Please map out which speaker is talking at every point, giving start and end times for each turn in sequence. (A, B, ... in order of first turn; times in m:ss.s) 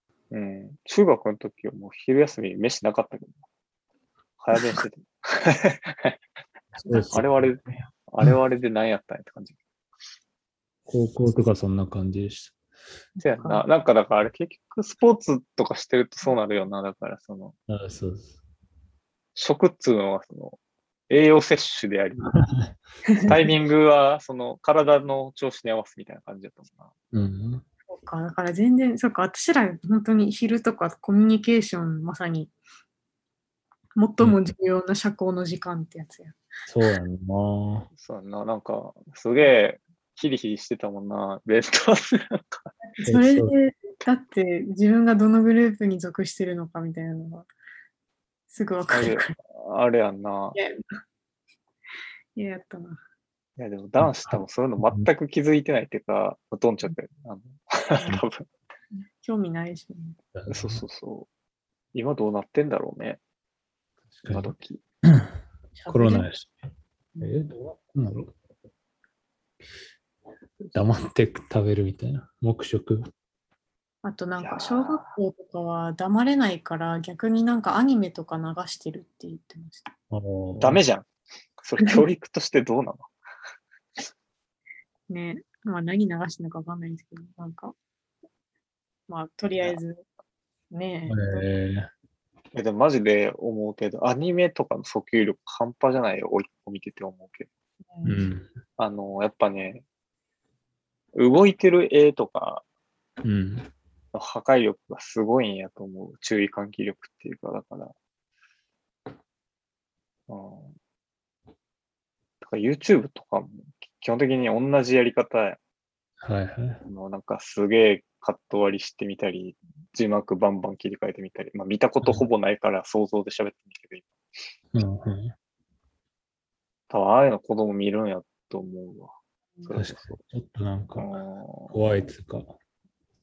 0:00.3-0:03.4 A
0:04.4-0:06.2 A
0:06.8-0:07.2 B
0:06.9-0:07.5 C
0:07.1-0:09.6 A
0:10.9-0:12.6 C
0:13.2-0:13.6 B
0:13.2-0:17.5 A
0:17.7-0:18.3 C
0:19.3-0:20.6 A
0:21.1-0:22.3 A
0:22.3-0:23.4 C
0:23.2-0:26.9 A
0:27.1-0:27.6 C
0:27.9-0:32.5 B
0:34.0-0:36.4 B
0:36.7-0:37.9 C
0:37.9-0:42.6 A
0:42.8-0:47.5 B
0:43.0-0:43.5 C
0:48.5-0:49.4 B
0:48.9-0:50.6 A
0:52.3-0:53.0 B
0:53.6-0:58.4 A
0:54.0-0:55.1 C
0:58.9-1:00.2 B
1:00.3-1:00.8 C
1:00.5-1:01.3 A
1:01.9-1:03.2 A
1:04.1-1:04.5 C
1:04.3-1:04.8 A
1:05.1-1:05.3 C
1:05.7-1:06.3 B
1:05.9-1:06.6 C
1:07.2-1:07.4 B
1:07.2-1:08.3 C
1:10.7-1:13.1 C
1:14.0-1:19.9 B
1:14.4-1:15.1 A
1:20.1-1:20.8 C
1:20.6-1:21.0 A
1:21.6-1:23.1 A
1:25.1-1:27.7 B
1:29.1-1:30.0 B
1:30.7-1:31.5 B
1:31.1-1:31.9 C
1:32.5-1:37.5 A
1:37.9-1:38.3 B
1:38.0-1:38.5 C
1:38.8-1:39.8 A
1:41.1-1:42.6 A
1:43.2-1:43.7 C
1:44.1-1:47.9 A
1:50.3-1:50.7 A
1:52.4-1:55.6 A
1:56.2-1:56.8 C
1:56.8-2:04.1 A
2:04.7-2:05.3 C
2:06.9-2:10.2 A
2:09.7-2:11.1 C
2:11.0-2:11.7 A
2:11.7-2:12.5 C